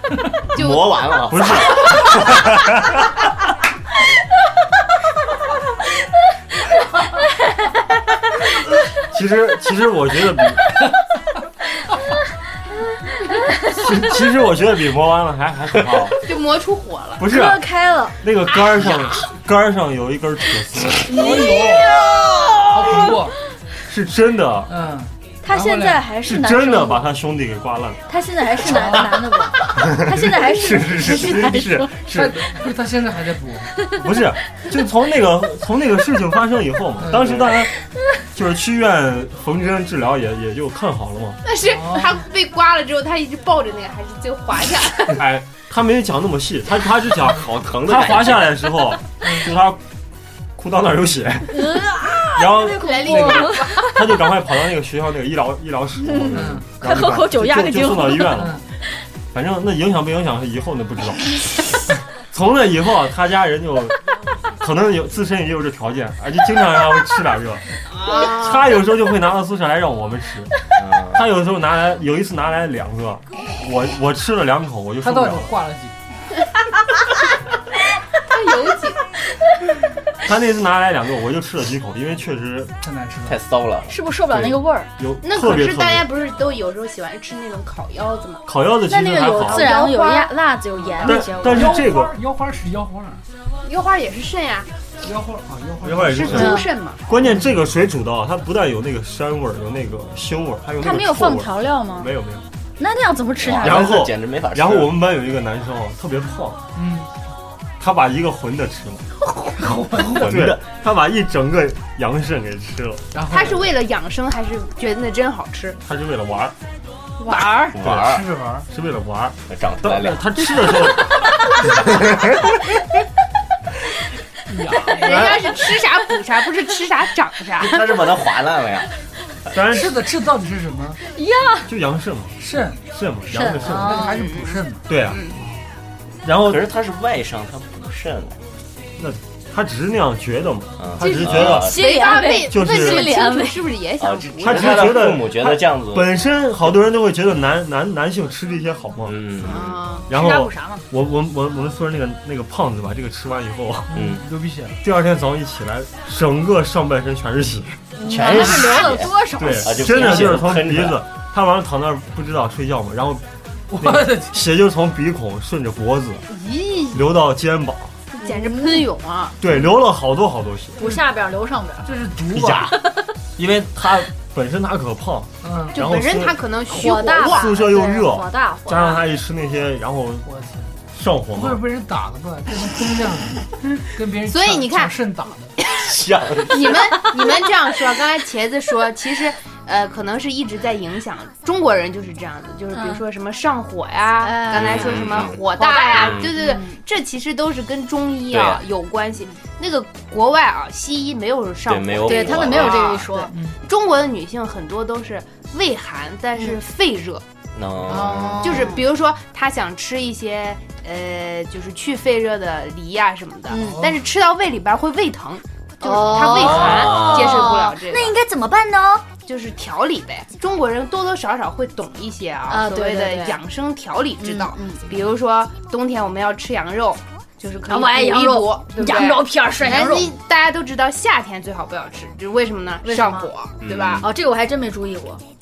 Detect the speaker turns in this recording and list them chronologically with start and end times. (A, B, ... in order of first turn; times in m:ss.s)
0:00.5-0:02.0 A
0:00.5-0:01.0 B
0:01.3-0:02.8 C
0:09.1-0:10.6 C
0:13.8-0:16.2 C
0:16.2-0:17.3 B
0:17.2-0:17.6 C
0:17.3-0:18.2 D
0:18.2-0:21.1 C
0:21.1-0:21.9 E
0:21.1-0:22.1 D
0:22.7-0:23.4 E
0:23.9-0:24.7 C
0:24.7-0:26.0 E
0:25.4-0:27.1 D
0:26.2-0:28.0 C
0:28.1-0:31.9 D
0:28.6-0:29.5 E
0:29.8-0:32.4 C
0:30.6-0:31.5 A
0:32.1-0:33.7 E
0:34.0-0:37.7 C
0:37.0-0:37.5 E
0:38.3-0:41.4 C
0:41.4-0:45.2 B
0:41.7-0:42.2 E
0:45.1-0:49.8 C
0:47.3-0:48.4 A
0:49.2-0:49.5 E
0:50.6-0:58.6 C
0:51.5-0:53.8 D
0:52.5-0:53.9 B
0:56.0-0:58.4 D
0:56.3-0:56.7 E
0:58.4-0:58.6 E
0:59.3-1:01.4 C
1:02.3-1:04.0 C
1:04.6-1:10.5 C
1:08.0-1:08.5 B
1:10.8-1:11.2 A
1:11.1-1:15.6 C
1:15.0-1:15.9 E
1:18.3-1:19.0 B
1:20.2-1:22.8 C
1:22.8-1:23.4 E
1:23.3-1:24.0 A
1:23.9-1:24.9 D
1:24.3-1:26.1 C
1:25.2-1:28.5 B
1:28.5-1:29.7 C
1:28.9-1:31.8 D
1:29.4-1:30.3 B
1:31.0-1:32.2 C
1:31.0-1:33.2 E
1:33.6-1:34.7 B
1:35.0-1:36.5 E
1:35.8-1:42.5 C
1:36.1-1:37.0 B
1:36.3-1:36.7 D
1:40.8-1:42.1 D
1:42.8-1:44.0 D
1:43.4-1:44.9 A
1:43.6-1:46.6 C
1:46.8-1:47.1 E
1:47.8-1:49.0 C
1:49.5-1:50.4 E
1:50.1-1:50.6 A
1:50.2-1:53.1 C
1:53.1-1:53.6 E
1:53.2-1:55.8 B
1:55.8-1:56.6 C
1:57.3-1:57.7 D
1:57.7-1:58.2 A
1:57.8-1:58.1 C
1:57.9-1:58.7 E
1:58.7-2:02.3 C
1:59.5-2:00.3 A
2:04.5-2:05.0 E
2:04.9-2:08.2 B
2:05.0-2:05.5 C
2:07.6-2:08.9 A
2:09.5-2:10.0 C
2:09.6-2:11.0 E
2:11.1-2:11.7 D
2:11.6-2:14.1 C
2:12.4-2:12.8 E
2:13.3-2:14.2 D
2:13.6-2:14.9 E
2:14.2-2:15.4 B
2:14.9-2:15.2 C
2:16.2-2:16.7 C
2:16.5-2:18.4 A
2:19.0-2:21.8 C
2:20.8-2:21.8 A
2:21.0-2:25.2 B
2:21.0-2:23.6 D
2:22.5-2:23.1 C
2:24.0-2:26.1 A
2:24.4-2:29.2 C
2:29.1-2:29.8 A
2:29.4-2:30.1 B
2:30.1-2:34.0 C
2:30.1-2:30.8 D
2:33.9-2:34.8 E
2:33.9-2:34.2 A
2:34.8-2:37.8 C
2:38.0-2:40.3 D
2:38.1-2:41.0 A
2:39.4-2:43.2 C
2:43.7-2:44.4 E
2:43.8-2:46.2 C
2:46.3-2:47.0 B
2:46.9-2:48.0 C
2:48.1-2:49.4 B
2:48.2-2:48.9 D
2:49.4-2:50.8 C
2:50.8-2:51.9 D
2:51.8-2:52.7 E
2:52.3-2:52.8 C
2:53.4-2:56.4 C
2:55.4-2:55.7 E
2:55.7-2:57.5 B
2:56.7-2:59.0 D
2:57.2-3:00.3 C
3:00.2-3:00.7 E
3:00.9-3:01.6 C
3:01.3-3:05.5 E
3:04.2-3:05.0 B
3:05.8-3:06.9 A
3:06.5-3:27.2 B
3:12.7-3:13.0 D
3:14.2-3:16.8 D
3:14.5-3:15.4 A
3:15.9-3:16.3 A
3:18.3-3:18.6 A
3:21.7-3:23.0 A
3:22.1-3:23.3 D
3:23.3-3:23.6 E
3:27.5-3:28.8 A
3:27.9-3:28.8 D
3:27.9-3:38.2 B
3:33.5-3:33.9 D
3:35.8-3:39.0 D
3:36.2-3:37.6 A
3:39.2-3:54.1 B
3:42.5-3:43.4 D
3:44.2-3:44.9 D
3:47.7-3:50.1 D
3:52.8-3:53.3 D
3:53.6-3:54.1 A
3:54.0-3:55.2 D